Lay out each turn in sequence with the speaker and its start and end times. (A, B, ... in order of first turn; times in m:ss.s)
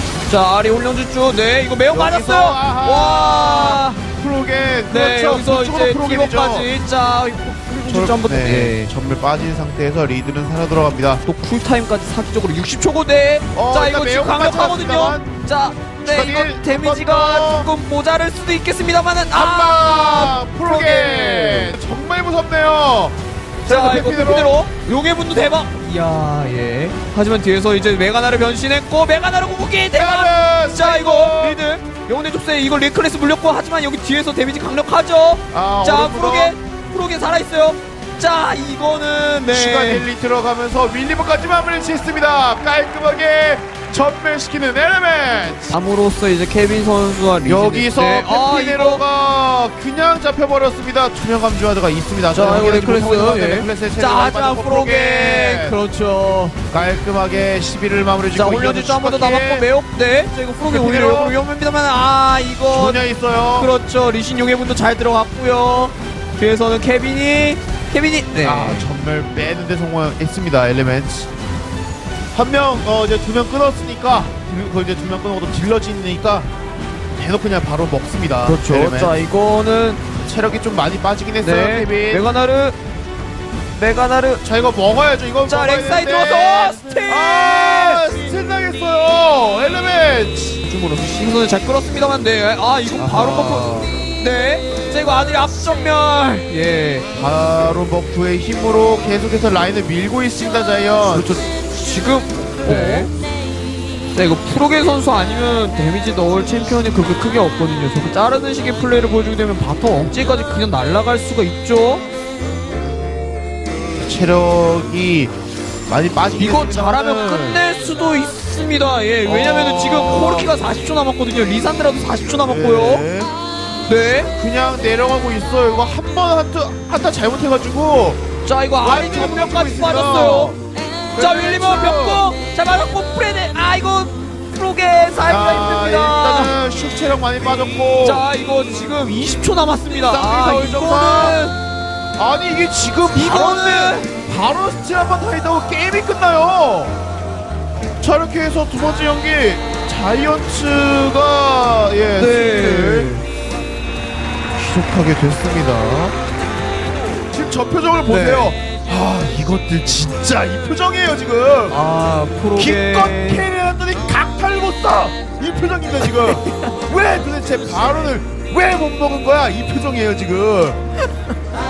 0:00.3-0:04.0 A
0:01.9-0:06.7 B
0:04.9-0:08.9 A
0:07.9-0:11.2 B
0:11.2-0:21.7 A
0:13.5-0:15.3 B
0:16.0-0:17.7 B
0:19.3-0:24.6 B
0:23.7-0:40.1 A
0:29.9-0:31.6 B
0:35.5-0:36.6 B
0:39.5-0:45.8 B
0:45.7-0:49.0 A
0:47.4-0:55.8 B
0:52.3-0:56.6 A
0:56.7-0:59.7 B
0:58.3-1:03.0 A
1:00.7-1:01.4 B
1:02.7-1:03.7 B
1:03.6-1:08.9 A
1:08.4-1:11.3 B
1:12.3-1:16.5 B
1:17.2-1:19.2 B
1:18.4-1:20.0 A
1:20.2-1:22.3 B
1:21.4-1:22.8 A
1:23.8-1:24.4 A
1:24.4-1:30.6 B
1:25.5-1:28.2 A
1:30.6-1:37.1 A
1:33.0-1:34.0 B
1:37.2-1:41.4 B
1:41.1-1:43.1 A
1:42.6-1:43.1 B
1:44.1-1:52.0 A
1:54.0-1:55.4 B
1:55.9-1:57.6 B
1:56.4-2:03.0 A
1:59.2-2:00.6 B
2:02.4-2:03.3 B
2:03.9-2:04.3 A
2:04.3-2:08.2 B
2:08.4-2:10.5 A
2:08.8-2:10.6 B
2:11.1-2:12.3 B
2:11.2-2:16.6 A
2:15.2-2:18.3 B
2:18.0-2:21.6 A
2:20.1-2:21.4 B
2:22.2-2:27.0 B
2:23.1-2:24.1 A
2:28.0-2:33.1 B
2:32.2-2:33.2 A
2:34.6-2:36.2 B
2:37.3-2:41.8 B
2:38.1-2:38.5 A
2:41.7-2:43.5 A
2:42.5-2:50.8 B
2:46.0-2:46.6 A